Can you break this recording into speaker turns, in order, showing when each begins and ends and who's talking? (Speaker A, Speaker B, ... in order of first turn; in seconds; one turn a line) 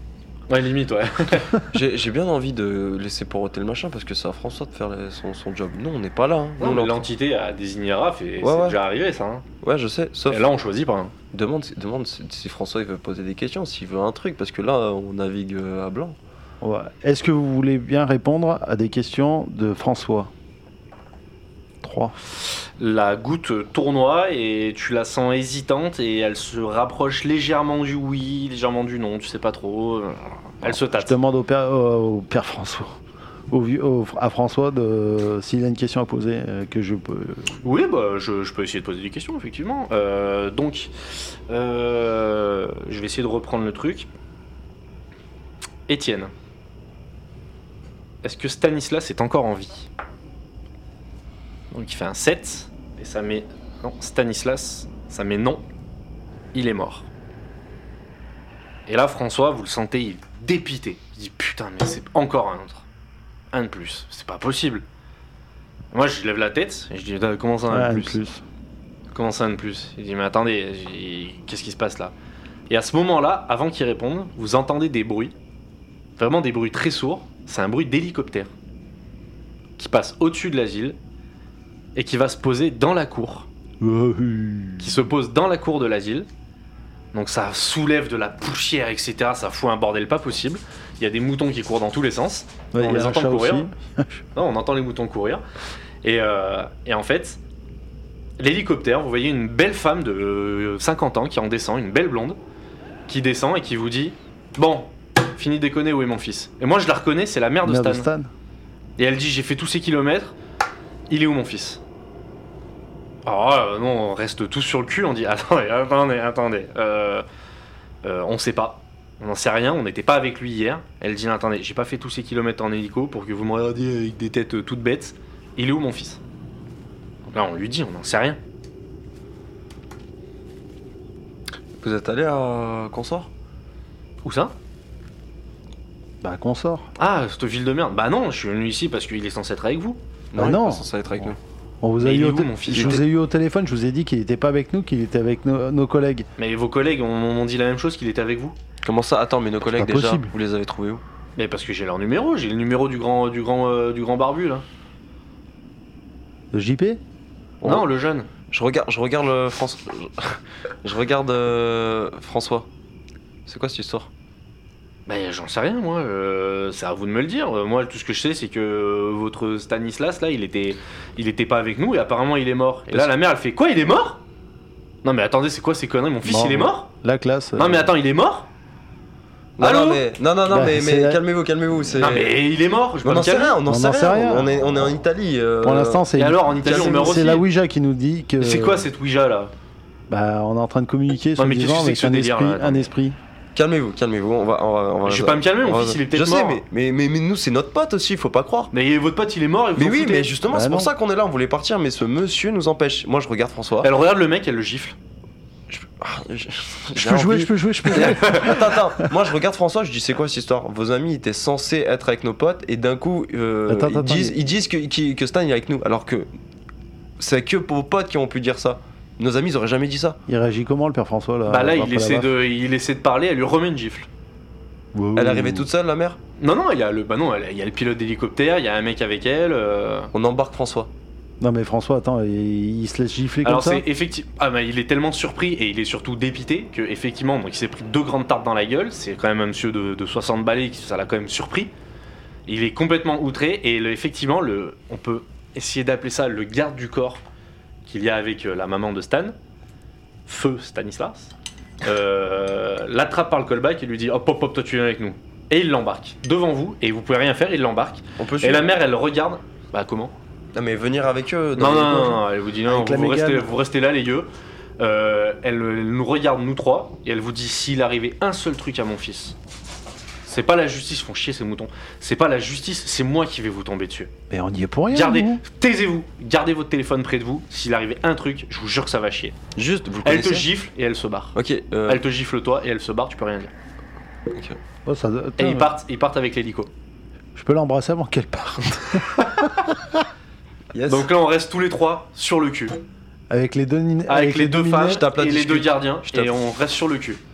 Speaker A: 0.5-1.6
Speaker B: 1.7-7.0
Speaker A: 6.6-9.4
Speaker B: 8.4-8.8
Speaker B: 9.6-10.5
Speaker A: 10.3-11.2
Speaker B: 11.3-16.2
Speaker C: 16.6-20.3
Speaker C: 21.8-22.1
Speaker A: 22.5-31.1
Speaker C: 30.6-33.0
Speaker C: 33.5-37.6
Speaker A: 37.6-44.1
Speaker A: 45.9-46.3
Speaker A: 48.2-49.9
Speaker A: 51.7-55.6
Speaker A: 56.5-57.1
Speaker A: 58.9-62.9
Speaker A: 63.5-64.9
Speaker A: 65.9-68.2
Speaker C: 67.7-68.4
Speaker A: 69.1-72.1
Speaker A: 72.7-75.3
Speaker A: 76.2-78.5
Speaker A: 79.8-81.0
Speaker A: 82.0-83.5
Speaker C: 83.8-85.0
Speaker A: 84.8-86.3
Speaker A: 87.1-93.7
Speaker C: 92.7-94.2
Speaker A: 94.3-95.4
Speaker A: 96.0-97.4
Speaker A: 98.4-102.4
Speaker A: 103.1-108.1
Speaker C: 107.7-108.3
Speaker A: 109.0-110.4
Speaker A: 111.1-111.8
Speaker A: 113.3-117.2
Speaker A: 118.0-126.2
Speaker A: 127.3-128.4
Speaker B: 131.8-133.3
Speaker A: 134.2-134.5
Speaker C: 136.2-136.9
Speaker A: 137.0-140.0
Speaker B: 140.3-141.4
Speaker C: 140.4-141.3
Speaker C: 141.8-146.3
Speaker A: 142.0-143.0
Speaker B: 142.7-143.0
Speaker A: 146.4-148.6
Speaker B: 148.8-151.0
Speaker C: 149.7-150.3
Speaker A: 151.4-154.7
Speaker C: 156.5-157.0
Speaker B: 157.6-157.9
Speaker A: 157.6-158.3
Speaker B: 158.5-162.7
Speaker B: 163.5-164.1
Speaker A: 165.1-174.2
Speaker A: 175.0-176.9
Speaker C: 176.2-177.9
Speaker A: 177.6-178.5
Speaker B: 179.6-182.4
Speaker A: 179.6-180.0
Speaker C: 180.5-181.2
Speaker A: 182.0-183.6
Speaker B: 183.0-186.1
Speaker C: 183.7-184.6
Speaker C: 185.6-188.9
Speaker A: 186.2-187.5
Speaker B: 186.6-187.1
Speaker A: 188.4-189.5
Speaker C: 190.1-193.2
Speaker A: 191.4-192.9
Speaker B: 193.6-198.7
Speaker A: 195.0-196.6
Speaker A: 198.7-200.3
Speaker B: 199.8-203.9
Speaker C: 200.5-200.9
Speaker A: 203.8-205.0
Speaker B: 205.7-216.3
Speaker C: 206.9-209.2
Speaker A: 207.9-208.6
Speaker C: 213.7-214.4
Speaker B: 217.2-220.2
Speaker C: 220.3-222.3
Speaker A: 221.5-224.1
Speaker C: 224.9-225.7
Speaker B: 225.2-226.2
Speaker A: 226.4-230.1
Speaker B: 230.1-230.9
Speaker C: 231.4-233.8
Speaker A: 233.4-241.7
Speaker A: 242.5-247.2
Speaker A: 247.9-249.3
Speaker A: 250.3-260.1
Speaker B: 258.2-258.7
Speaker B: 260.5-262.2
Speaker A: 261.6-269.4
Speaker C: 262.7-263.5
Speaker A: 270.2-274.1
Speaker C: 274.3-275.4
Speaker A: 274.9-279.4
Speaker B: 279.6-280.5
Speaker A: 280.0-283.5
Speaker B: 281.4-282.1
Speaker B: 284.3-284.6
Speaker C: 284.9-285.7
Speaker A: 285.4-286.7
Speaker C: 287.4-290.0
Speaker A: 289.2-289.5
Speaker B: 290.7-291.1
Speaker A: 290.9-292.8
Speaker C: 293.3-295.0
Speaker A: 294.1-297.2
Speaker B: 294.9-296.3